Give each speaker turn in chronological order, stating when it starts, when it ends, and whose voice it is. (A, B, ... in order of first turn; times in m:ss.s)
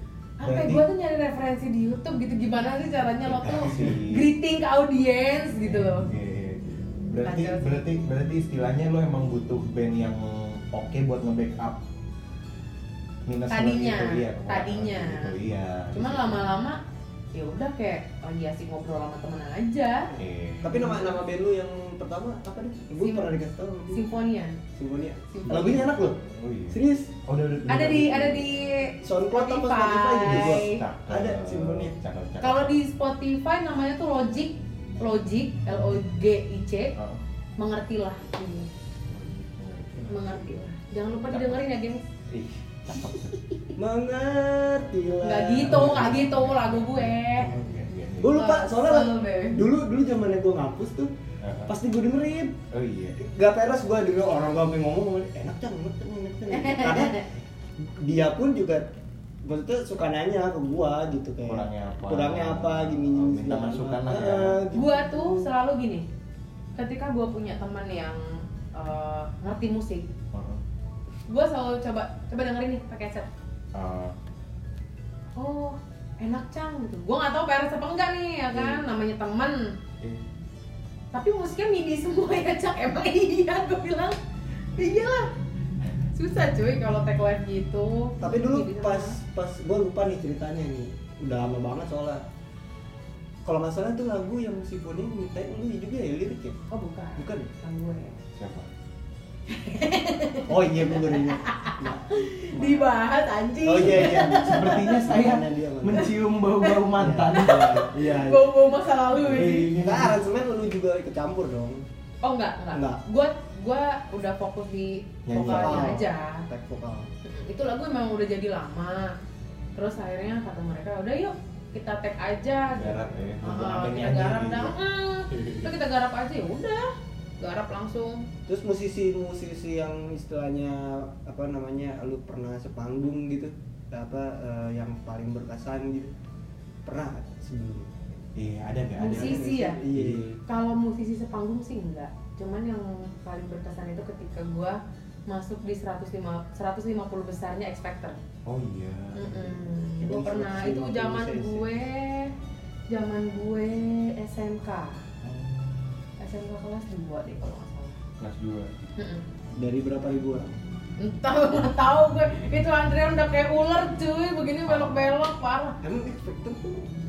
0:00.4-0:06.1 A
0:00.4-0:00.8 B
0:03.2-0:04.3 B
0:05.6-0:11.8 B
0:07.2-0:07.8 A
0:13.2-0:16.5 B
0:13.5-0:15.3 A
0:15.9-0:16.8 A
0:17.3-0:20.1 A
0:20.1-0:20.9 B
0:20.6-0:24.0 C
0:23.0-0:23.3 A
0:23.9-0:24.6 A
0:24.7-0:26.2 C
0:25.3-0:25.9 A
0:25.4-0:28.6 B
0:26.7-0:27.1 C
0:27.7-0:30.8 A
0:29.0-0:31.9 C
0:30.2-0:32.8 B
0:32.4-0:36.9 A
0:37.0-0:37.2 B
0:37.6-0:38.7 A
0:39.2-0:40.2 B
0:40.0-0:42.0 A
0:41.3-0:41.6 B
0:42.3-0:43.4 B
0:43.8-0:46.0 C
0:45.2-0:47.5 A
0:45.6-0:48.4 B
0:48.2-0:51.1 C
0:48.3-0:49.6 A
0:51.4-0:51.7 B
0:51.7-0:52.6 C
0:52.7-0:53.2 B
0:53.2-0:57.2 C
0:56.5-0:57.3 A
0:57.8-0:58.8 C
0:59.4-1:05.5 C
1:01.5-1:04.6 B
1:04.7-1:06.0 A
1:06.8-1:10.1 A
1:10.3-1:10.6 B
1:11.3-1:13.3 A
1:13.7-1:14.1 B
1:15.4-1:19.7 A
1:18.5-1:18.8 C
1:21.1-1:24.2 A
1:24.7-1:25.3 A
1:26.1-1:29.2 A
1:28.2-1:32.2 C
1:33.4-1:36.6 C
1:36.7-1:38.2 A
1:37.2-1:37.5 C
1:38.3-1:38.7 B
1:39.5-1:45.0 A
1:40.5-1:42.0 C
1:43.6-1:46.1 C
1:43.8-1:47.9 B
1:46.0-1:49.7 A
1:46.9-1:48.6 C
1:49.1-1:51.8 C
1:49.2-1:50.2 B
1:52.2-1:56.4 A
1:52.7-1:53.0 C
1:55.2-1:56.0 B
1:55.4-1:57.1 C
1:57.2-1:59.1 A
1:59.8-2:08.2 A
2:02.7-2:04.7 B
2:05.3-2:05.7 B
2:08.4-2:16.1 C
2:16.8-2:18.0 C
2:18.4-2:20.3 B
2:19.0-2:19.8 A
2:19.0-2:20.4 C
2:20.5-2:28.2 A
2:28.4-2:29.6 B
2:29.1-2:32.3 A
2:30.0-2:31.8 C
2:32.9-2:35.0 A
2:35.2-2:36.0 B
2:36.2-2:38.0 A
2:38.2-2:38.7 B
2:39.0-2:39.2 A
2:39.6-2:40.6 C
2:41.0-2:45.8 A
2:44.6-2:45.2 B
2:45.8-2:46.9 C